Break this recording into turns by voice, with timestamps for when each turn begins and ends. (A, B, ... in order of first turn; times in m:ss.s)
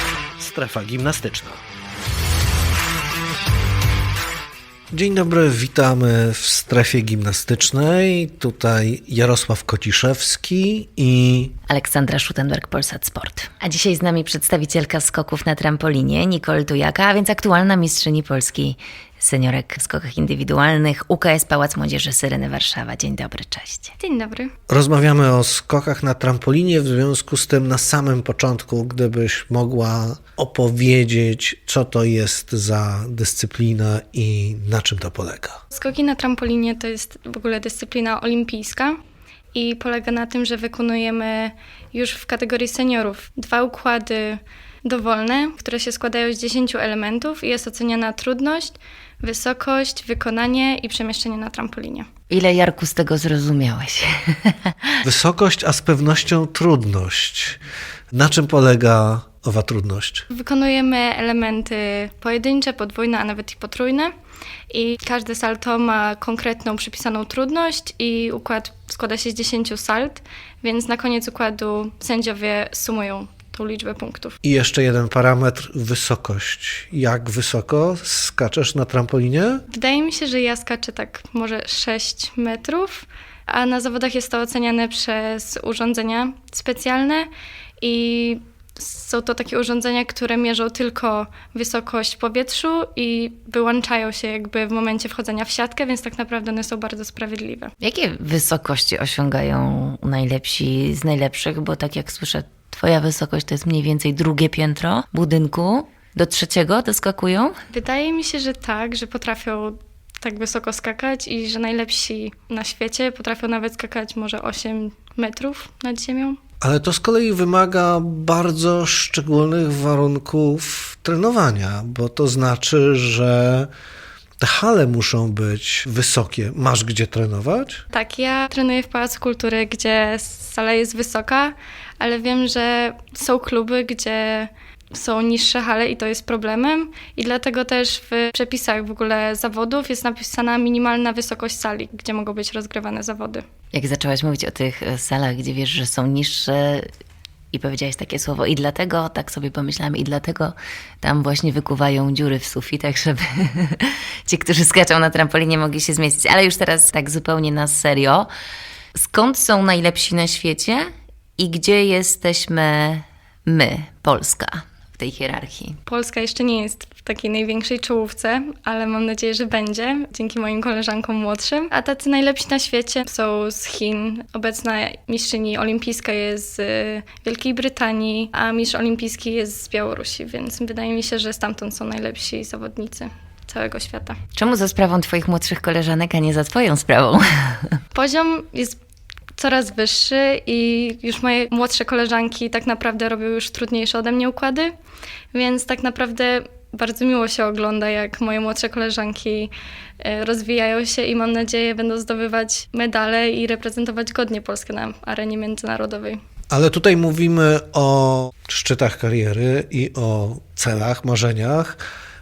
0:00.4-0:01.6 A
0:04.9-0:11.6 A
0:11.7-0:23.9 B
0:24.0-0:24.5 C
0:24.7-0:35.6 A
0:35.7-0:39.0 C
0:39.5-0:52.1 C
0:52.3-0:54.9 B
0:55.0-0:57.6 A
0:58.1-1:00.3 A
1:00.3-1:04.1 C
1:04.7-1:14.4 C
1:14.4-1:19.6 A
1:19.7-1:27.3 C
1:27.8-1:37.7 C
1:37.8-1:47.6 B
1:47.7-1:56.4 C
1:56.6-2:03.7 A
2:04.4-2:07.8 A
2:07.9-2:23.4 C
2:23.7-2:26.9 B
2:27.5-2:38.3 B
2:39.0-2:45.8 B
2:45.9-3:04.2 C
3:04.4-3:07.8 B
3:07.9-3:08.8 C
3:09.4-3:14.7 C
3:15.3-3:26.2 C
3:26.5-3:31.8 A